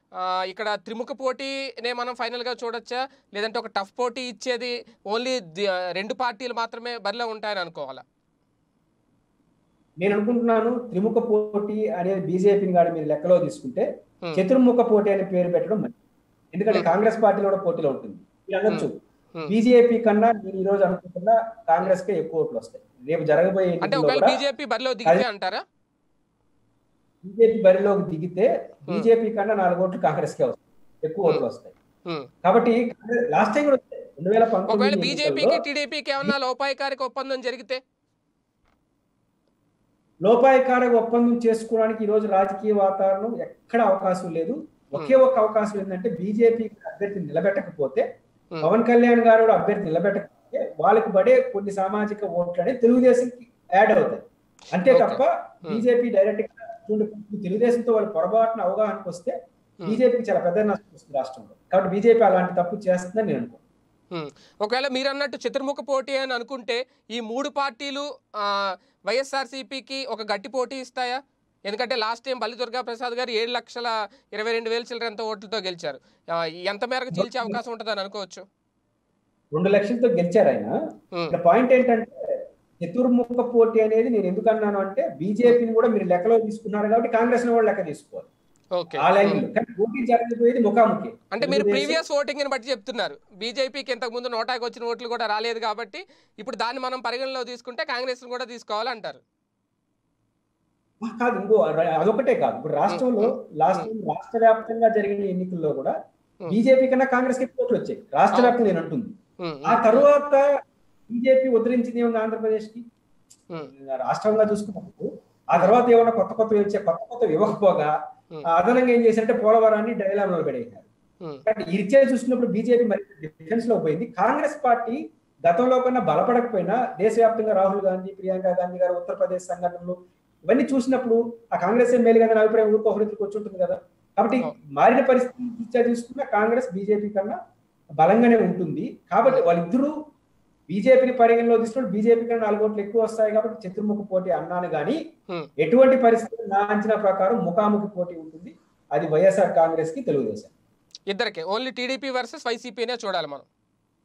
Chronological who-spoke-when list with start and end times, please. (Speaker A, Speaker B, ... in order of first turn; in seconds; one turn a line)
Speaker A: 0.2-5.4
Speaker A: 6.0-8.0
Speaker B: 10.0-16.0
Speaker B: 16.5-18.9
Speaker A: 18.7-19.5
Speaker B: 19.5-24.4
Speaker A: 23.8-25.6
Speaker B: 27.2-31.8
Speaker B: 32.4-35.6
Speaker A: 34.7-37.8
Speaker B: 40.2-48.0
Speaker B: 48.6-59.3
Speaker A: 54.9-55.8
Speaker B: 59.9-63.6
Speaker A: 64.1-78.4
Speaker B: 77.1-77.6
Speaker B: 79.5-80.7
Speaker B: 81.3-82.1
Speaker B: 82.8-88.3
Speaker A: 88.8-89.4
Speaker B: 89.0-92.0
Speaker A: 91.3-99.2
Speaker B: 101.0-106.0
Speaker A: 102.9-103.9
Speaker B: 106.5-109.1
Speaker A: 109.4-110.1
Speaker B: 109.7-110.4
Speaker B: 111.1-112.8
Speaker B: 113.7-117.9
Speaker B: 118.5-120.9
Speaker B: 121.5-130.0
Speaker B: 130.5-137.4
Speaker B: 138.0-139.9
Speaker B: 140.7-145.0
Speaker B: 145.6-150.5
Speaker A: 151.1-153.5